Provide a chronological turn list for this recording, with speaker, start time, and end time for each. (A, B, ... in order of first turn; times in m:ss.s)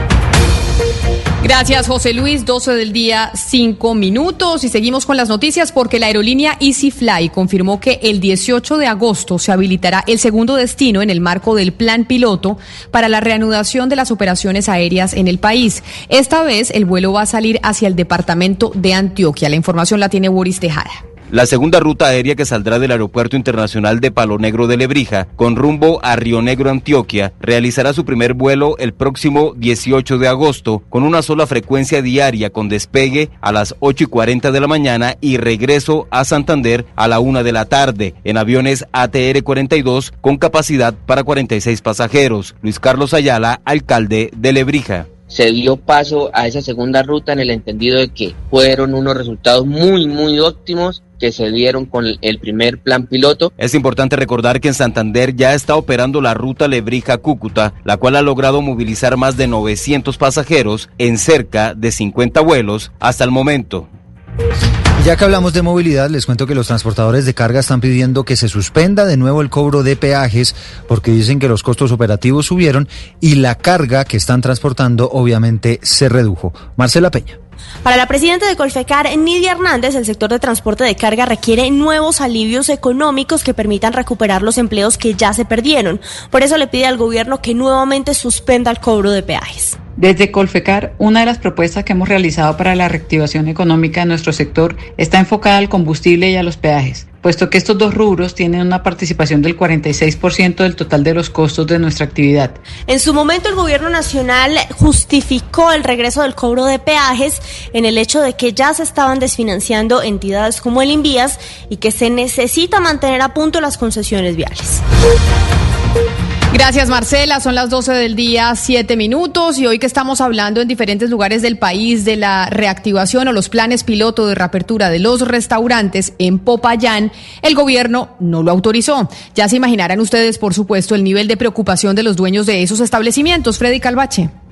0:01.4-0:21.0 A
0:21.3-0:45.1 B
0:45.3-0:53.5 C
0:53.6-1:03.9 B
1:05.0-1:17.4 D
1:17.8-1:29.8 E
1:30.0-1:42.6 F
1:42.9-1:54.8 E
1:56.5-2:14.3 A